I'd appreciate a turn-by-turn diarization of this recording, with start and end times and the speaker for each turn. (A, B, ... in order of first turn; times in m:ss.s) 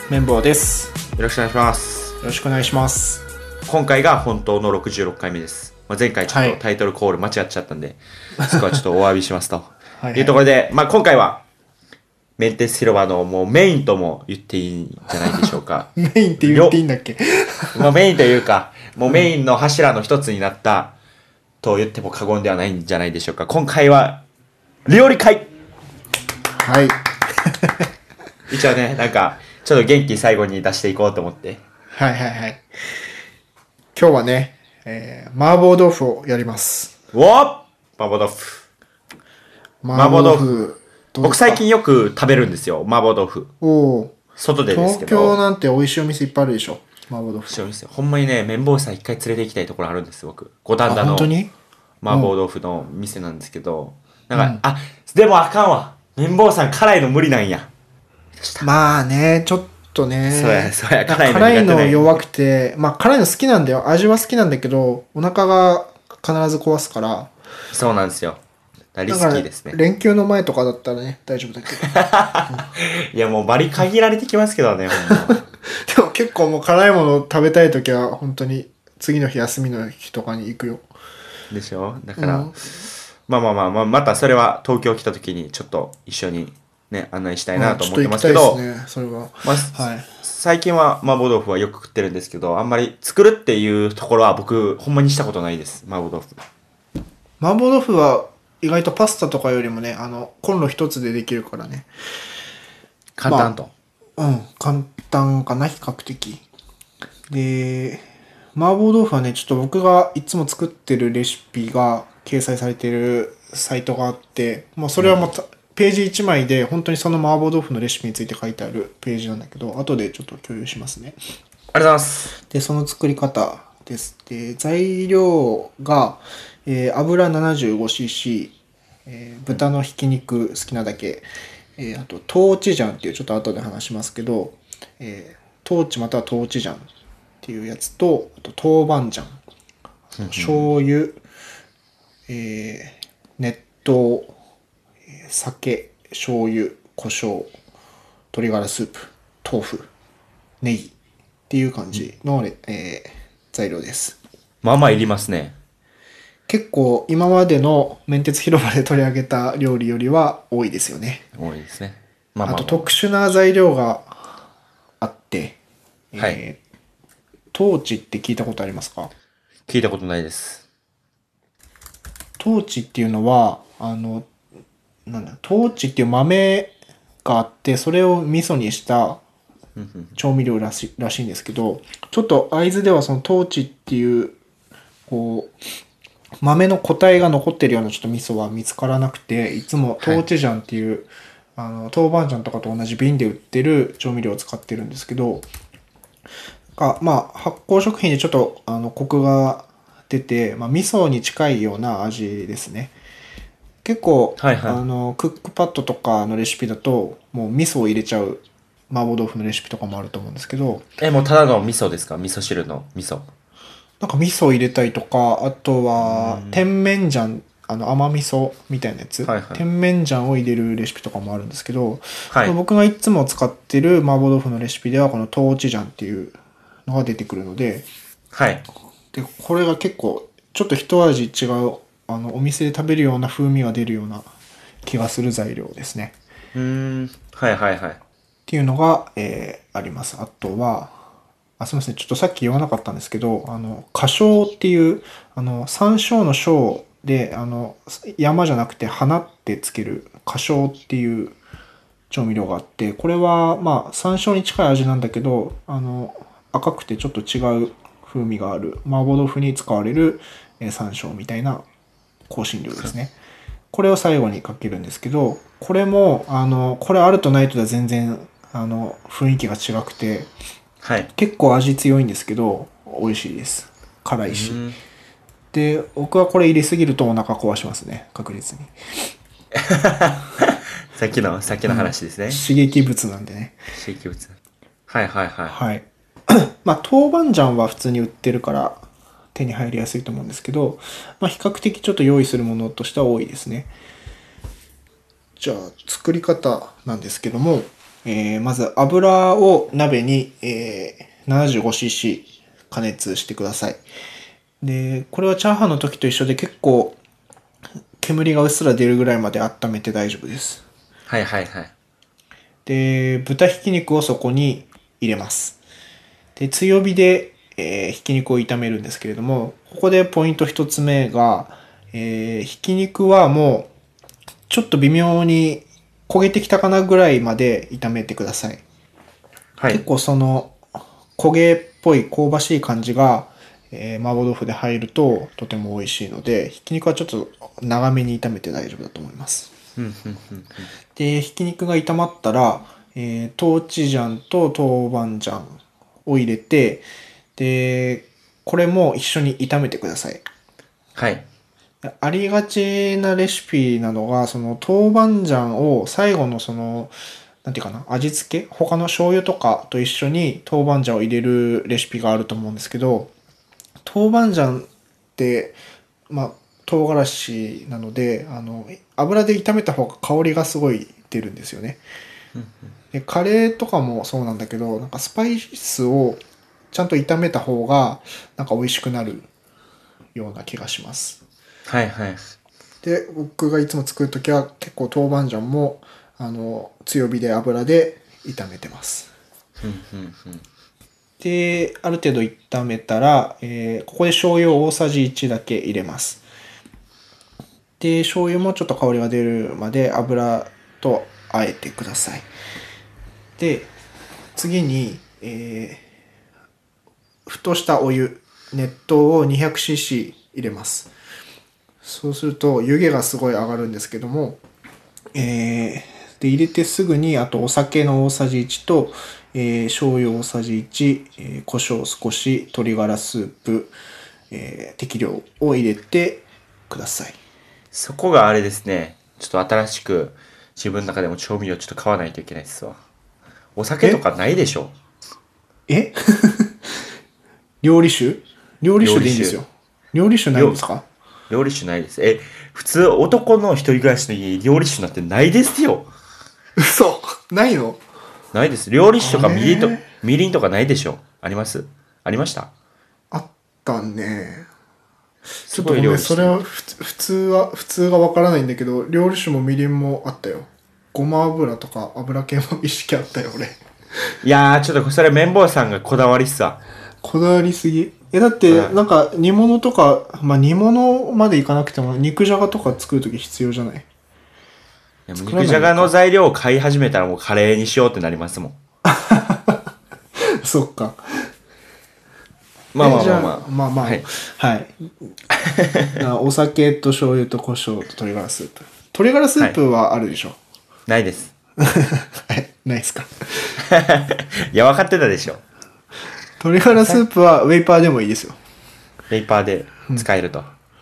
0:00.1-0:00.9 A
0:01.2-0:02.2 B
0:02.2-0:03.2 A
0:03.6-0:11.4 B
0:06.3-0:06.6 A
0:10.0-0:10.4 A
0:12.4-0:16.8 B
0:16.0-0:17.9 A
0:17.7-0:20.9 B
0:21.6-0:24.2 B
0:24.8-0:25.5 B
0:26.5-0:27.9 A
0:28.5-0:31.6 B
0:31.9-0:32.7 A
0:33.9-0:36.9 A
0:37.1-0:38.6 B
0:39.8-0:41.6 A
0:39.9-0:40.5 B
0:41.2-0:43.5 B
0:43.6-0:44.1 A
0:44.4-0:45.4 B
0:44.7-0:47.6 A
0:47.5-0:51.3 B
0:50.8-0:51.5 A
0:52.0-0:57.7 B
0:52.1-0:52.3 A
0:54.3-0:54.6 A
0:58.4-0:58.7 B
0:58.6-1:07.3 A
1:00.3-1:02.2 B
1:07.7-1:08.4 B
1:08.9-1:09.8 B
1:09.1-1:12.7 A
1:11.8-1:15.4 B
1:15.2-1:20.8 A
1:21.5-1:28.6 B
1:22.2-1:22.6 A
1:27.5-1:30.1 A
1:29.4-1:36.4 B
1:37.4-1:41.9 A
1:43.2-1:43.7 B
1:43.2-1:43.5 A
1:44.2-1:46.4 A
1:47.3-2:01.2 A
1:55.0-1:55.3 B
2:01.7-2:02.3 B
2:02.5-2:08.5 A
2:09.1-2:11.2 A
2:11.8-2:16.9 A
2:17.4-2:19.4 A
2:20.2-2:20.7 B
2:20.2-2:21.2 A
2:22.3-2:24.3 A
2:25.2-2:27.5 A
2:28.3-2:29.9 A
2:30.6-2:30.9 A
2:31.5-2:34.2 A
2:34.6-2:35.6 B
2:36.5-2:41.2 A
2:41.4-2:42.9 B
2:42.4-2:44.4 A
2:45.0-2:45.6 A
2:46.1-2:46.6 A
2:46.2-2:46.4 B
2:47.5-2:49.1 A
2:49.7-2:50.6 B
2:52.4-2:54.3 A
2:55.1-2:56.7 A
2:57.2-2:59.2 A
2:59.8-3:00.2 B
3:00.2-3:04.4 A
3:05.1-3:05.6 A
3:06.4-3:15.5 A
3:16.8-3:22.9 A
3:23.8-3:30.9 A
3:24.4-3:24.8 B
3:31.0-3:33.3 B
3:34.0-3:47.8 A
3:36.0-3:36.6 B
3:39.2-3:39.6 B
3:48.3-3:48.6 B
3:49.1-3:54.3 A
3:54.8-3:56.1 A
3:56.5-3:58.0 B
3:58.5-4:00.9 A
4:01.6-4:11.4 A
4:12.1-4:21.6 A
4:22.3-4:23.1 A
4:23.7-4:30.3 A
4:30.8-4:31.1 B
4:31.2-4:34.6 A
4:34.3-4:34.8 B
4:35.5-4:38.7 A
4:39.5-4:42.4 B
4:41.6-4:43.6 A
4:43.7-4:44.4 B
4:44.9-4:45.6 B
4:45.5-4:48.8 A
4:49.3-4:53.7 A
4:55.4-5:03.8 A
5:04.6-5:07.0 A
5:08.0-5:10.6 A
5:11.1-5:11.7 B
5:12.6-5:15.6 A
5:16.4-5:23.7 A
5:24.5-5:28.6 A
5:29.6-5:29.8 B
5:29.7-5:30.6 A
5:31.2-5:39.5 A
5:39.8-5:40.7 B
5:41.0-5:46.8 A
5:47.4-5:50.2 A
5:51.0-5:51.2 B
5:51.8-6:03.1 A
6:03.8-6:05.6 A
6:06.1-6:11.8 A
6:12.4-6:12.7 B
6:12.9-6:16.2 A
6:16.7-6:19.3 A
6:20.1-6:21.2 A
6:21.7-6:22.2 B
6:22.8-6:29.1 A
6:29.6-6:30.4 B
6:31.2-6:36.2 A
6:37.8-6:42.3 A
6:43.4-6:43.7 A
6:44.3-6:45.8 A
6:47.2-6:50.9 A
6:51.8-6:54.4 A
6:55.1-7:03.7 A
7:04.3-7:07.2 A
7:07.7-7:12.8 B
7:13.6-7:14.7 B
7:15.7-7:16.6 A
7:17.6-7:20.8 A
7:18.8-7:19.4 B
7:20.3-7:20.6 B
7:21.3-7:25.9 B
7:26.6-7:27.8 A
7:28.3-7:32.5 B
7:29.0-7:29.9 A
7:33.1-7:34.5 A
7:35.5-7:36.4 B
7:35.5-7:43.6 A
7:44.2-7:46.6 B
7:47.0-7:53.8 A
7:48.5-7:48.8 B
7:55.1-7:58.6 B
7:55.2-7:55.9 A
7:58.9-7:59.6 A
8:00.4-8:01.0 A
8:02.7-8:04.1 B
8:02.8-8:04.9 A
8:05.3-8:06.0 B
8:06.0-8:10.4 A
8:10.9-8:11.3 B
8:11.6-8:13.6 A
8:13.6-8:15.4 B
8:16.4-8:18.4 A
8:16.7-8:17.0 B
8:19.1-8:20.5 B